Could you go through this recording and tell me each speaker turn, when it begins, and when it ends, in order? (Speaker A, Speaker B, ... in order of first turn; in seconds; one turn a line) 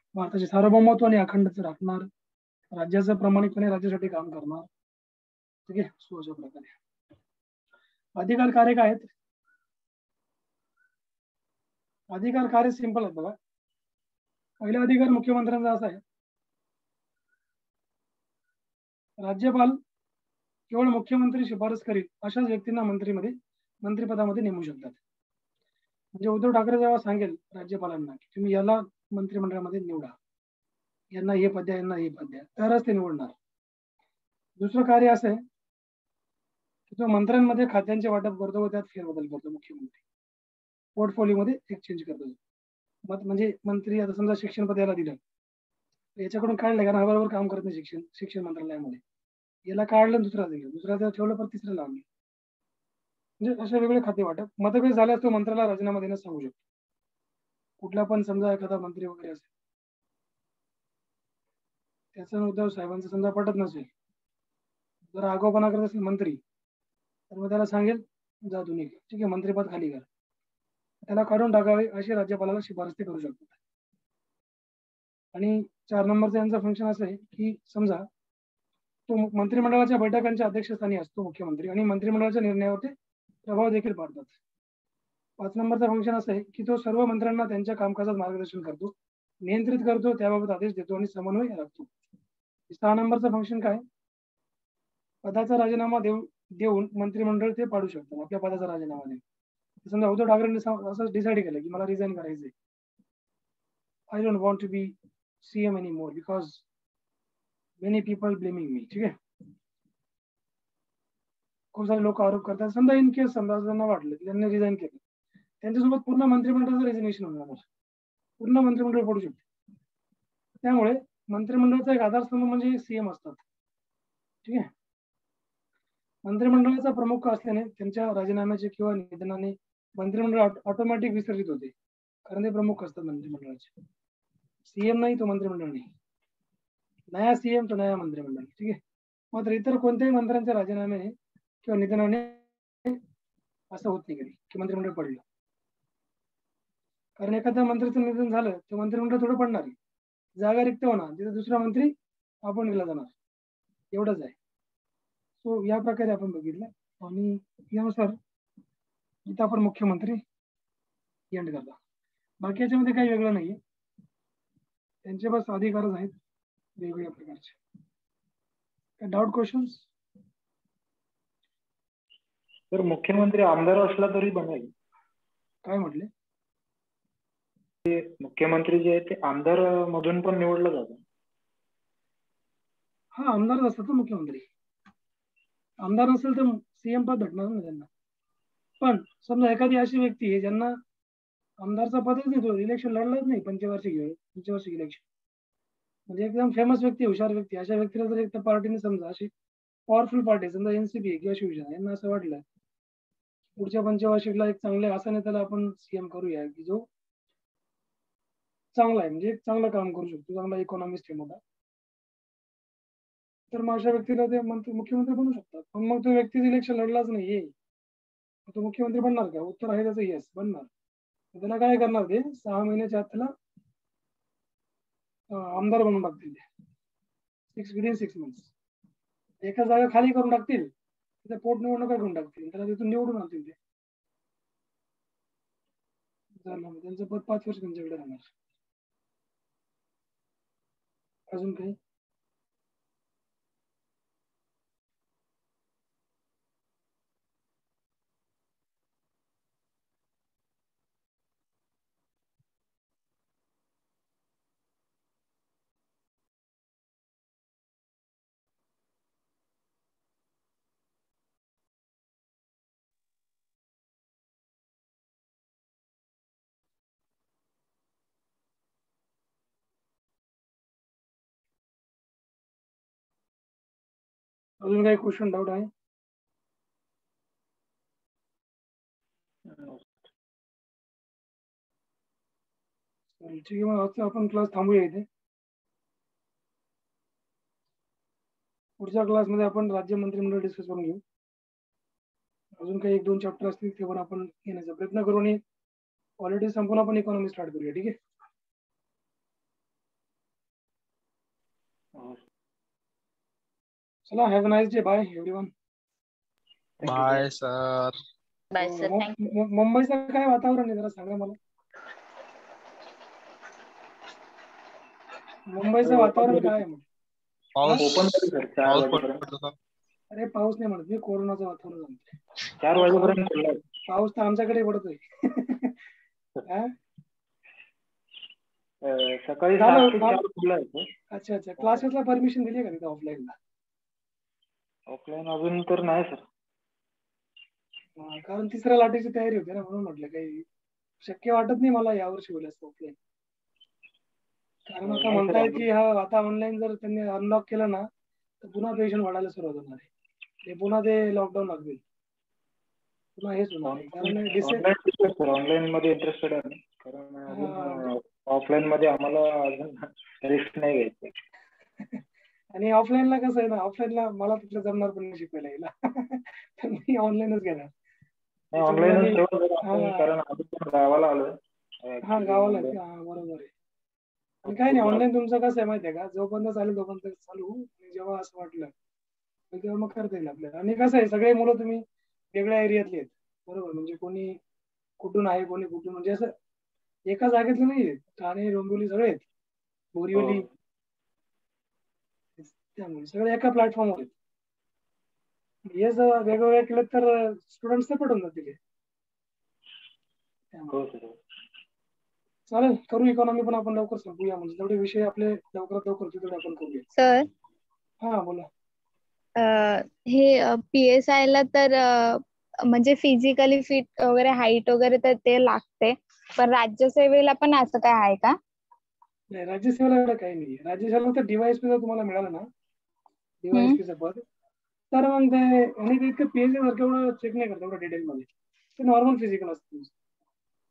Speaker A: 0.1-2.1
Speaker A: 2.7-4.7
Speaker A: 5.7-6.7
Speaker A: 8.2-9.1
Speaker A: 12.1-13.3
Speaker A: 14.6-16.0
Speaker A: 19.2-19.8
Speaker A: 20.7-25.0
Speaker A: 26.1-30.1
Speaker A: 31.1-33.3
Speaker A: 34.6-35.4
Speaker A: 36.9-40.0
Speaker A: 41.0-42.4
Speaker A: 43.1-45.2
Speaker A: 46.2-49.0
Speaker A: 49.7-52.0
Speaker A: 53.4-56.6
Speaker A: 57.8-59.5
Speaker A: 62.1-63.9
Speaker A: 65.1-66.4
Speaker A: 67.3-70.0
Speaker A: 71.1-73.5
Speaker A: 75.3-78.1
Speaker A: 79.1-82.9
Speaker A: 83.5-84.4
Speaker A: 85.4-88.9
Speaker A: 89.4-91.9
Speaker A: 92.7-93.8
Speaker A: 95.2-99.2
Speaker A: 99.8-102.5
Speaker A: 104.1-106.6
Speaker A: 107.8-109.1
Speaker A: 111.7-115.0
Speaker A: 115.6-117.6
Speaker A: 118.4-119.4
Speaker A: 120.6-123.4
Speaker A: 126.2-131.7
Speaker A: 132.2-133.7
Speaker A: 134.7-135.9
Speaker A: 137.1-138.8
Speaker A: 139.3-141.1
Speaker A: 141.6-143.0
Speaker A: 143.7-145.2
Speaker A: 147.2-149.8
Speaker A: 150.4-151.9
Speaker A: 152.4-153.1
Speaker A: 153.9-154.3
Speaker A: 155.4-158.2
Speaker A: 159.3-160.2
Speaker A: 161.3-161.8
Speaker A: 162.4-163.6
Speaker A: 165.1-166.1
Speaker A: 166.8-167.6
Speaker A: 169.0-169.9
Speaker B: 172.7-174.7
Speaker A: 175.6-176.1
Speaker B: 177.8-181.0
Speaker A: 183.1-184.4
Speaker A: 185.8-187.9
Speaker A: 188.8-190.7
Speaker A: 191.6-195.1
Speaker A: 196.1-199.3
Speaker A: 199.9-202.4
Speaker A: 203.6-206.8
Speaker A: 208.7-211.4
Speaker A: 213.5-217.5
Speaker A: 218.5-220.7
Speaker A: 221.3-223.3
Speaker A: 225.3-226.4
Speaker A: 227.5-228.5
Speaker A: 229.4-230.7
Speaker A: 231.2-233.6
Speaker A: 236.4-238.3
Speaker A: 241.3-241.8
Speaker A: 274.6-275.7
Speaker B: 279.4-280.1
Speaker A: 283.2-285.1
Speaker A: 288.8-291.0
Speaker A: 292.6-295.4
Speaker A: 296.2-297.9
Speaker B: 301.9-302.2
Speaker A: 304.1-305.5
Speaker B: 306.8-307.3
Speaker C: 306.8-308.0
Speaker D: 308.5-309.1
Speaker A: 308.6-311.4
Speaker A: 315.5-316.8
Speaker B: 315.8-316.6
Speaker C: 317.6-319.5
Speaker A: 317.6-317.9
Speaker B: 317.7-319.3
Speaker A: 320.1-322.1
Speaker B: 322.6-323.6
Speaker A: 322.7-323.2
Speaker A: 323.8-325.7
Speaker A: 326.4-326.7
Speaker B: 328.8-330.9
Speaker A: 329.6-330.2
Speaker A: 331.1-333.4
Speaker B: 331.6-331.8
Speaker B: 334.9-336.2
Speaker A: 338.0-340.4
Speaker A: 341.0-342.9
Speaker A: 344.7-347.9
Speaker B: 344.8-345.7
Speaker A: 348.4-349.9
Speaker A: 350.4-351.8
Speaker A: 353.2-354.6
Speaker B: 353.6-361.1
Speaker A: 357.3-357.9
Speaker A: 362.6-367.7
Speaker B: 368.5-372.8
Speaker A: 368.6-370.1
Speaker A: 372.0-373.5
Speaker B: 374.4-375.1
Speaker A: 374.4-378.7
Speaker A: 379.5-384.4
Speaker A: 385.0-386.3
Speaker A: 387.1-389.2
Speaker A: 389.9-390.4
Speaker B: 390.1-390.4
Speaker A: 392.4-394.1
Speaker A: 395.7-398.6
Speaker B: 400.7-401.2
Speaker A: 402.5-406.9
Speaker D: 406.9-407.3
Speaker A: 408.0-408.5
Speaker D: 409.4-418.3
Speaker A: 419.3-422.4
Speaker A: 423.4-424.2
Speaker D: 423.5-423.8
Speaker A: 424.9-429.9